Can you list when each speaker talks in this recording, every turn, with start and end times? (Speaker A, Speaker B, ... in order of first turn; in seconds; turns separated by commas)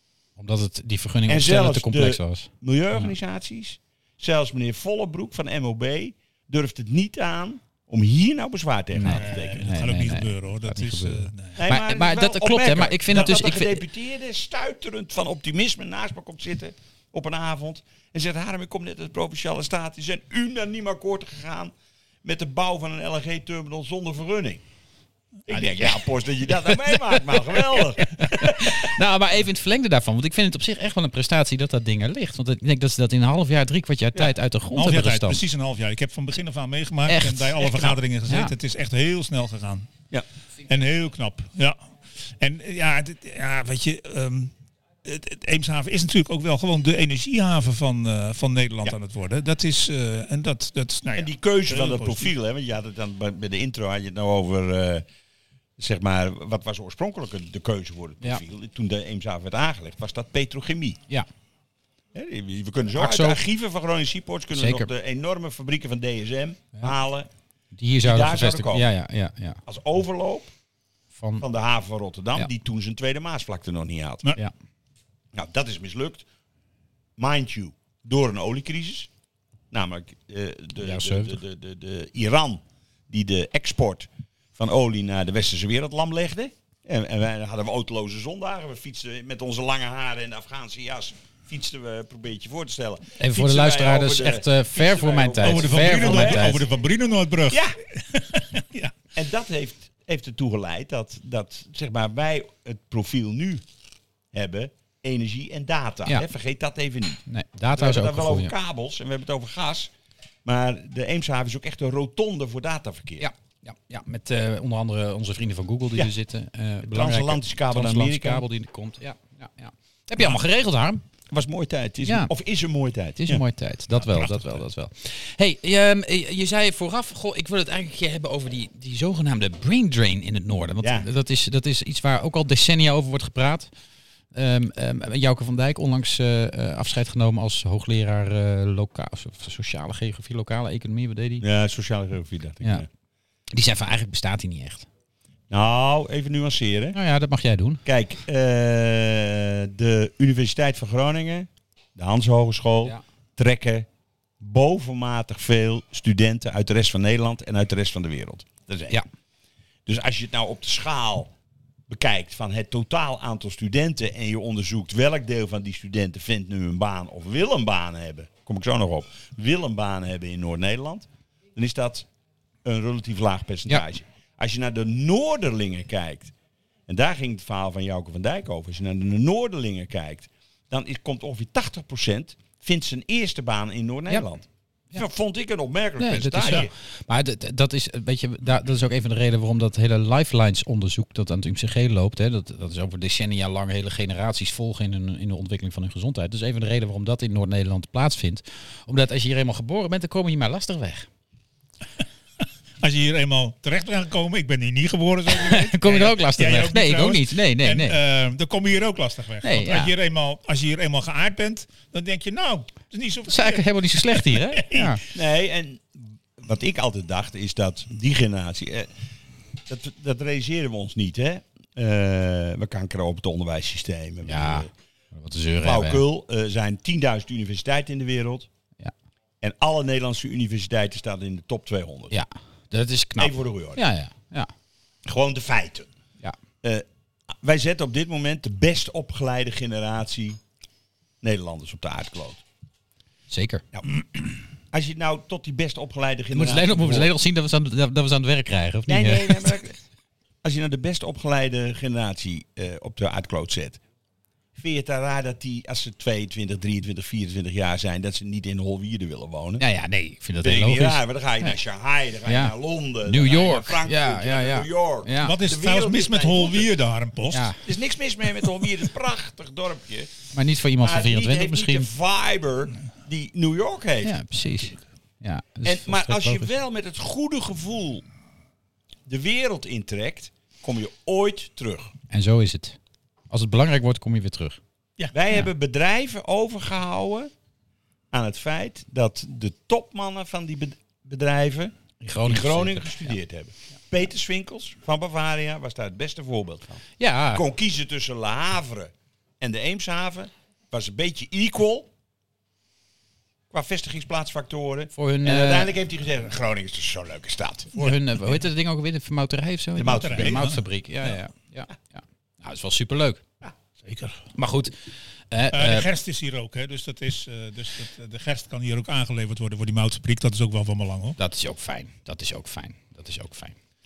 Speaker A: 0.4-3.1, Speaker B: 1.3-9.7, Speaker A: 8.9-13.8, Speaker C: 9.1-11.6, Speaker B: 11.6-21.7, Speaker B: 22.2-24.6, Speaker B: 25.5-28.8, Speaker A: 25.5-35.4, Speaker C: 34.8-39.9, Speaker A: 37.1-38.5, Speaker C: 40.7-41.8, Speaker C: 42.4-44.5, Speaker C: 45.0-52.3, Speaker B: 51.1-55.0, Speaker B: 55.8-61.0, Speaker B: 62.1-67.3, Speaker A: 63.0-63.4, Speaker A: 64.5-64.9, Speaker A: 67.8-69.6, Speaker B: 68.0-68.9, Speaker B: 69.7-70.5, Speaker A: 71.2-71.5, Speaker B: 71.4-74.3, Speaker B: 75.3-76.3, Speaker B: 77.2-79.1, Speaker B: 79.7-96.6, Speaker A: 80.8-81.4, Speaker A: 93.2-96.6, Speaker C: 95.4-98.9, Speaker B: 97.5-97.8, Speaker B: 99.1-103.6, Speaker B: 104.3-107.2, Speaker A: 107.3-108.5, Speaker B: 107.8-109.9, Speaker B: 110.5-113.3, Speaker A: 113.2-121.0, Speaker B: 116.8-118.5, Speaker B: 121.3-123.4, Speaker A: 122.0-122.3, Speaker A: 123.2-133.7, Speaker C: 124.0-124.6, Speaker B: 130.8-131.1, Speaker A: 134.3-141.4, Speaker B: 141.4-142.9, Speaker A: 143.5-144.9, Speaker B: 145.5-147.0, Speaker A: 146.9-147.8, Speaker B: 147.8-153.9, Speaker B: 154.4-159.0, Speaker B: 159.9-161.3, Speaker B: 161.9-172.1, Speaker B: 172.6-176.3, Speaker B: 176.9-186.7, Speaker A: 186.0-201.1, Speaker C: 202.8-214.9, Speaker A: 205.3-208.0, Speaker A: 209.4-209.9, Speaker A: 213.3-215.0, Speaker B: 215.1-218.9, Speaker B: 219.7-224.7, Speaker A: 224.3-226.0, Speaker B: 225.6-228.5, Speaker B: 229.4-232.2, Speaker A: 232.1-234.5, Speaker B: 233.2-233.8, Speaker B: 235.1-235.9, Speaker B: 237.4-240.4, Speaker B: 241.2-242.4, Speaker A: 243.3-243.6, Speaker B: 244.7-247.1, Speaker A: 246.3-249.5, Speaker B: 248.9-249.8, Speaker B: 250.4-253.8, Speaker B: 254.6-259.6, Speaker A: 259.6-261.6, Speaker B: 260.4-266.7, Speaker A: 262.2-265.4, Speaker C: 265.2-267.5, Speaker A: 267.3-267.6, Speaker B: 267.6-270.1, Speaker A: 270.3-271.9, Speaker B: 270.8-274.1, Speaker A: 274.0-276.5, Speaker B: 275.6-278.1, Speaker B: 279.1-281.9, Speaker A: 282.1-282.8, Speaker A: 283.3-284.6, Speaker B: 285.1-287.3, Speaker B: 288.1-291.7, Speaker A: 292.0-293.1, Speaker B: 292.2-301.9, Speaker A: 297.0-297.4, Speaker B: 303.5-307.8, Speaker A: 304.9-305.7, Speaker A: 307.8-313.2, Speaker B: 309.8-310.5, Speaker C: 309.9-310.6, Speaker C: 313.8-314.2, Speaker A: 314.4-314.7, Speaker A: 315.3-315.9, Speaker C: 315.5-321.2, Speaker A: 321.2-323.6